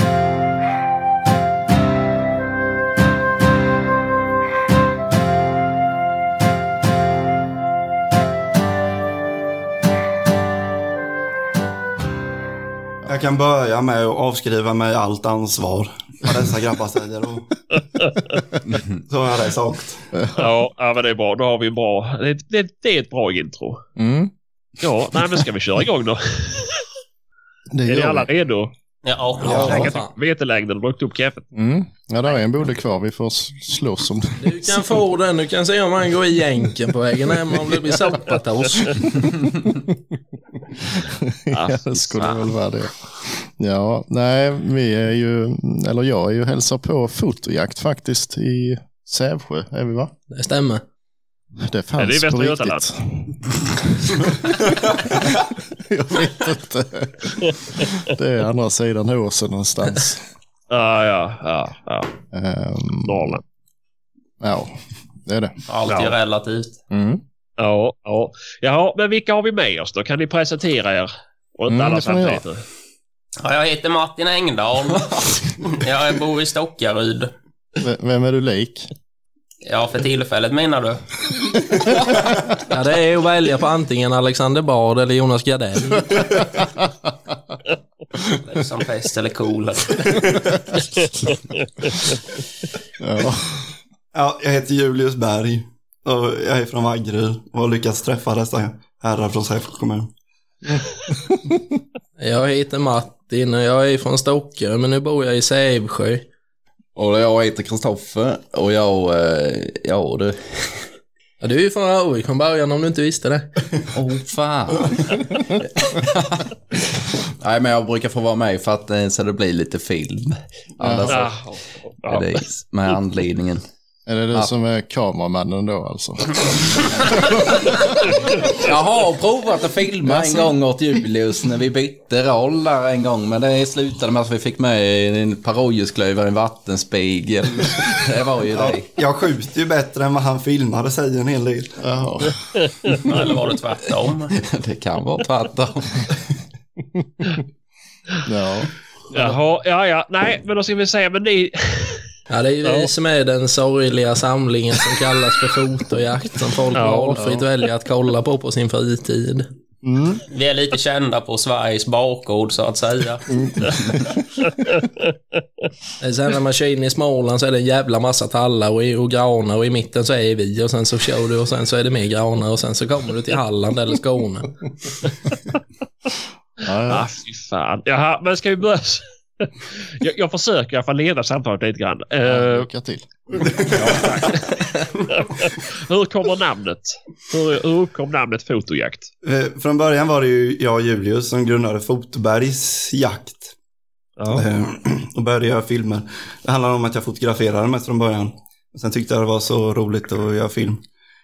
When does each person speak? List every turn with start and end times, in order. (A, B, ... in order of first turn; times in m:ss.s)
0:13.1-0:17.6 A
0:18.7-0:19.0 B
0:19.1-0:20.1 A
0:20.4-0:23.8 C
0:24.0-0:24.3 D
0:24.8-0:26.9 C
0:27.7-0:28.3 D
0:27.9-0:28.7 C
0:29.0-0:30.0 E
0:29.4-0:30.1 F
0:29.4-0:31.5 C
0:29.5-0:29.8 A
0:31.5-0:34.9 D
0:34.4-0:39.1 F
0:41.0-0:50.1 D
0:41.5-0:42.5 C
0:50.3-0:50.8 F
0:51.6-1:00.2 D
0:52.0-0:52.8 C
1:00.7-1:02.1 C
1:02.3-1:03.4 D
1:03.1-1:03.4 C
1:04.4-1:04.7 D
1:05.2-1:05.5 D
1:05.7-1:06.8 E
1:05.9-1:06.2 C
1:06.9-1:07.2 D
1:07.6-1:12.6 C
1:11.7-1:12.4 D
1:13.4-1:17.3 E
1:17.8-1:18.9 D
1:19.6-1:21.0 E
1:22.7-1:26.4 F
1:28.4-1:30.1 E
1:33.0-1:33.7 D
1:34.1-1:40.1 A
1:40.7-1:41.6 D
1:42.2-1:46.3 F
1:47.0-1:50.8 B
1:51.4-1:53.5 F
1:53.9-1:56.5 B
1:57.2-2:01.3 B
2:00.8-2:01.2 D
2:01.1-2:02.4 C
2:02.1-2:03.6 B
2:04.1-2:08.2 D
2:08.5-2:18.9 B
2:10.0-2:10.5 D
2:18.6-2:21.8 A
2:21.8-2:22.4 D
2:22.7-2:23.1 C
2:23.1-2:24.4 E
2:24.3-2:26.1 B
2:27.0-2:27.3 D
2:28.2-2:28.7 D
2:29.1-2:32.0 C
2:32.3-2:39.5 F
2:32.6-2:32.9 C
2:36.8-2:37.3 C
2:37.2-2:37.4 D
2:39.8-2:40.2 D
2:40.3-2:43.2 E
2:43.3-2:44.6 D
2:44.8-2:45.0 C
2:46.0-2:54.5 F
2:56.6-2:57.1 D
2:56.9-3:02.7 C
3:02.2-3:03.6 D
3:03.5-3:04.0 A
3:03.7-3:09.1 C
3:09.2-3:13.5 A
3:14.2-3:14.5 C
3:14.3-3:20.8 A